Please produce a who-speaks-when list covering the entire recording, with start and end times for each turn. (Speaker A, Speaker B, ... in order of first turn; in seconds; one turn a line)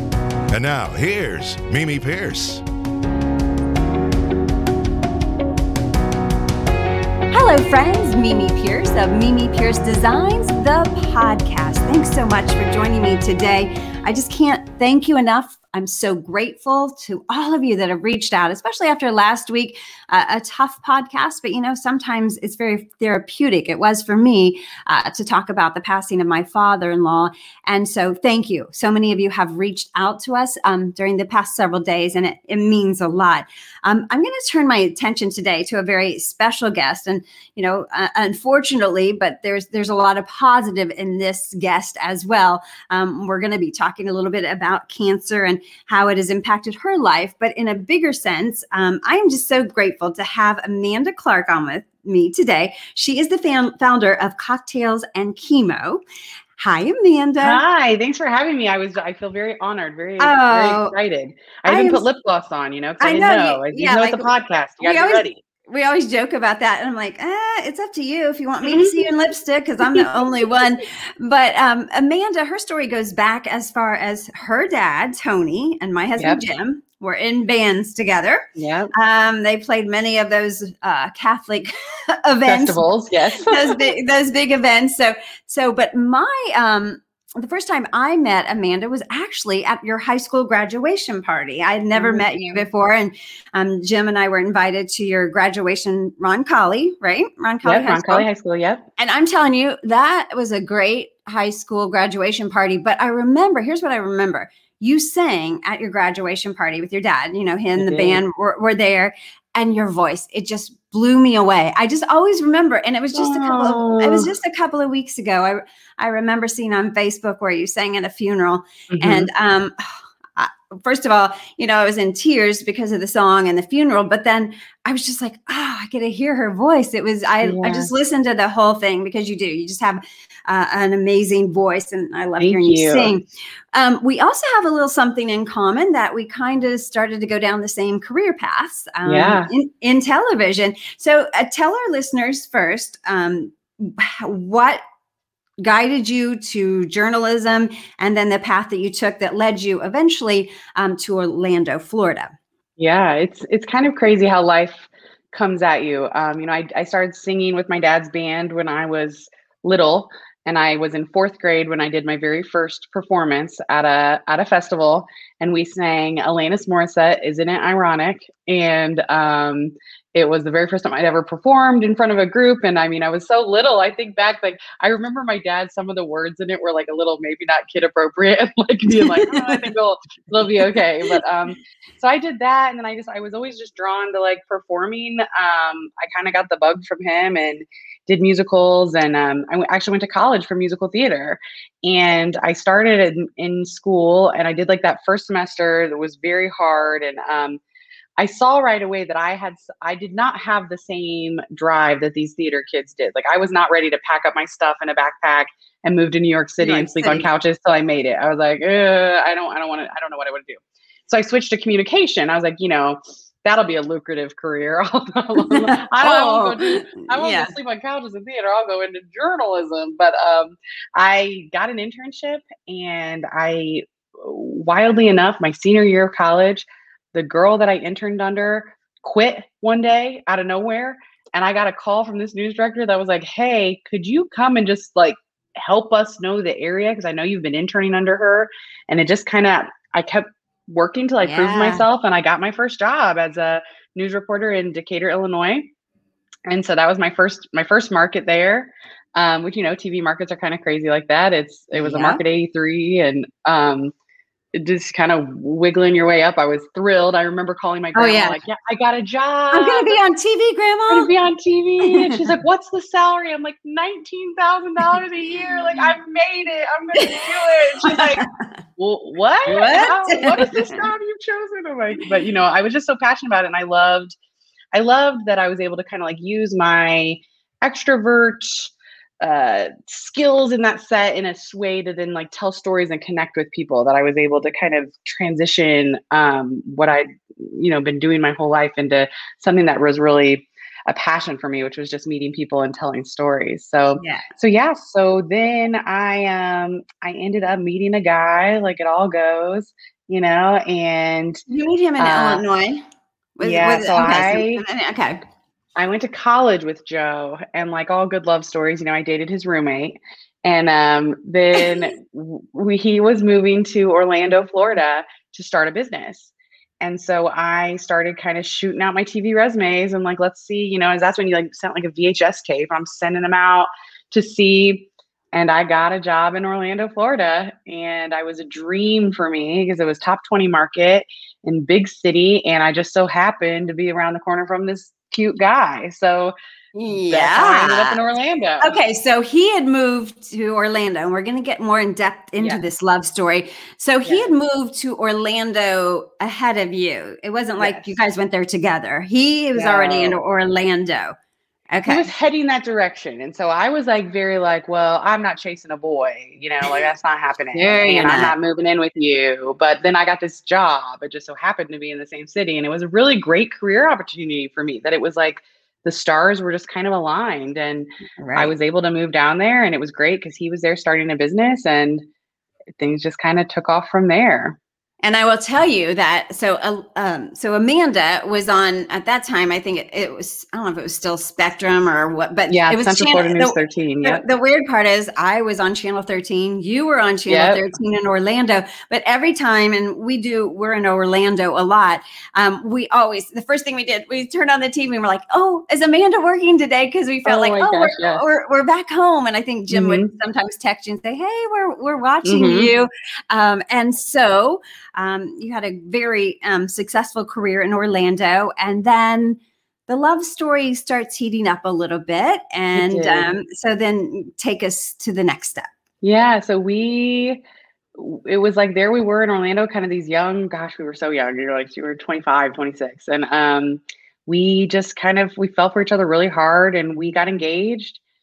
Speaker A: 0.5-2.6
Speaker B: 7.3-56.0
Speaker B: 56.6-57.6
Speaker C: 57.4-65.4
Speaker B: 60.2-61.0
Speaker B: 61.6-62.0
Speaker B: 63.0-98.3
Speaker C: 68.6-69.0
Speaker C: 69.9-70.2
Speaker C: 78.6-78.9
Speaker C: 82.4-83.9
Speaker C: 91.9-92.2
Speaker C: 97.6-98.9
Speaker B: 99.0-144.8
Speaker C: 107.8-108.2
Speaker C: 113.1-114.3
Speaker C: 118.9-119.3
Speaker C: 127.4-127.9
Speaker C: 132.4-133.1
Speaker C: 139.0-139.5
Speaker B: 145.6-152.3
Speaker C: 152.8-197.6
Speaker B: 178.9-179.7
Speaker B: 180.6-181.2
Speaker C: 198.2-245.7
Speaker B: 206.6-207.3
Speaker B: 215.4-217.5
Speaker B: 241.2-241.8
Speaker C: 246.5-253.9
Speaker B: 251.7-252.2
Speaker C: 254.5-260.0
Speaker B: 257.9-258.4
Speaker B: 259.5-261.1
Speaker C: 260.9-268.2
Speaker B: 261.8-262.3
Speaker B: 266.9-268.3
Speaker C: 268.8-274.1
Speaker B: 269.4-270.9
Speaker C: 274.7-301.4
Speaker B: 294.0-294.2
Speaker B: 301.5-302.8
Speaker C: 302.0-302.4
Speaker B: 303.4-305.2
Speaker C: 303.4-304.6
Speaker C: 305.8-336.3
Speaker B: 336.7-338.0
Speaker C: 336.9-338.8
Speaker B: 338.6-351.1
Speaker C: 344.0-344.3
Speaker C: 347.6-348.0
Speaker C: 349.6-350.2
Speaker B: 351.7-352.1
Speaker C: 351.9-372.0
Speaker B: 357.5-358.3
Speaker B: 368.2-368.5
Speaker C: 372.8-374.6
Speaker B: 375.0-415.7
Speaker C: 382.5-384.2
Speaker C: 387.3-387.6
Speaker C: 397.2-398.2
Speaker C: 399.7-400.1
Speaker C: 402.2-402.7
Speaker C: 412.7-413.3
Speaker C: 416.0-417.4
Speaker C: 417.9-428.0